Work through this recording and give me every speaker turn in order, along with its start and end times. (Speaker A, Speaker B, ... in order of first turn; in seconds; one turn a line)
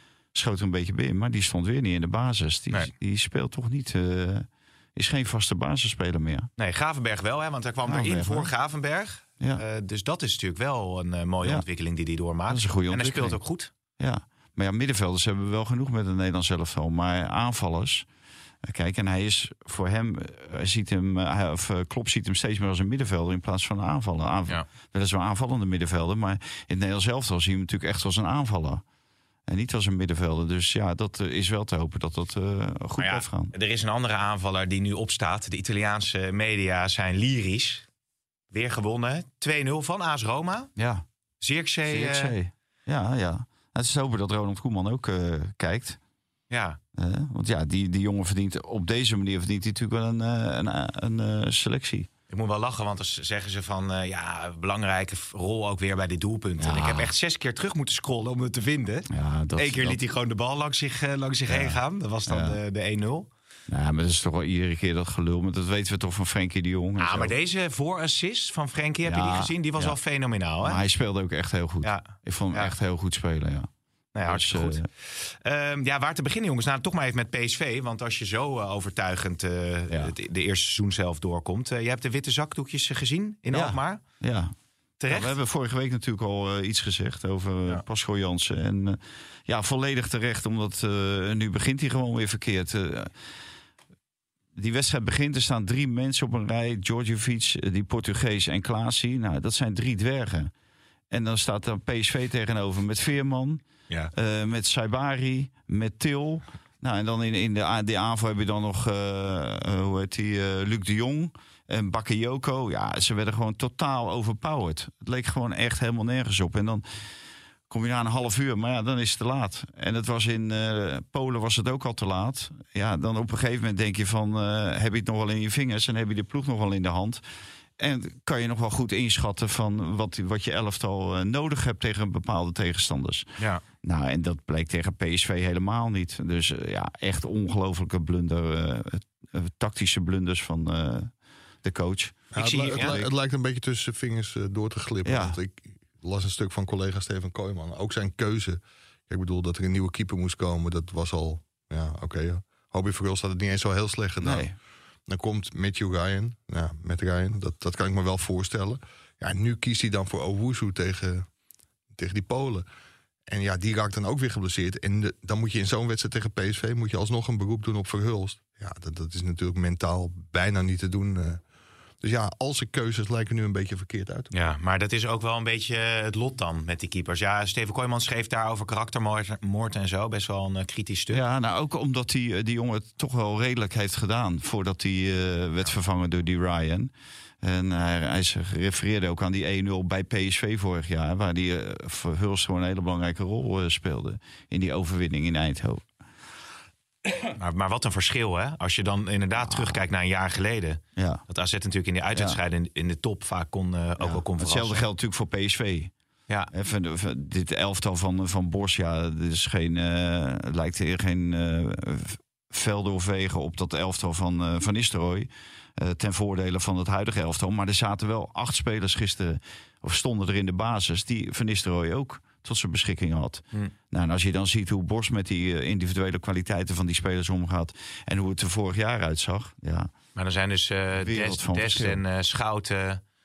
Speaker A: 0.3-6.5
Speaker B: 6.6-13.7
Speaker A: 7.9-8.5
Speaker A: 12.5-13.4
Speaker A: 14.0-18.1
Speaker A: 18.6-28.8
Speaker A: 29.5-33.5
Speaker B: 33.0-37.9
Speaker B: 38.5-40.7
Speaker A: 40.8-41.0
Speaker B: 41.4-42.4
Speaker A: 41.9-46.0
Speaker B: 46.5-46.8
Speaker A: 47.0-52.1
Speaker B: 52.3-63.3
Speaker A: 56.6-57.1
Speaker A: 59.1-60.0
Speaker A: 61.5-62.6
Speaker A: 63.7-67.3
Speaker B: 67.0-70.8
Speaker A: 69.1-70.0
Speaker A: 70.6-73.7
Speaker B: 71.8-72.7
Speaker B: 74.2-84.0
Speaker A: 74.2-74.9
Speaker A: 83.5-84.5
Speaker B: 85.0-85.4
Speaker A: 85.1-93.1
Speaker A: 94.6-100.5
Speaker A: 101.1-116.8
Speaker A: 117.7-127.2
Speaker A: 127.8-133.3
Speaker A: 133.8-141.1
Speaker A: 141.6-143.1
Speaker C: 142.3-154.5
Speaker B: 142.3-143.0
Speaker A: 145.1-145.4
Speaker A: 154.2-154.5
Speaker C: 155.1-161.3
Speaker C: 162.0-162.7
Speaker C: 163.3-171.4
Speaker C: 172.0-174.3
Speaker B: 174.3-181.2
Speaker A: 181.1-186.9
Speaker A: 187.4-195.9
Speaker B: 197.4-204.8
Speaker A: 199.5-199.8
Speaker A: 201.0-201.2
Speaker A: 204.0-205.9
Speaker A: 206.5-229.9
Speaker B: 230.2-233.0
Speaker A: 231.0-232.0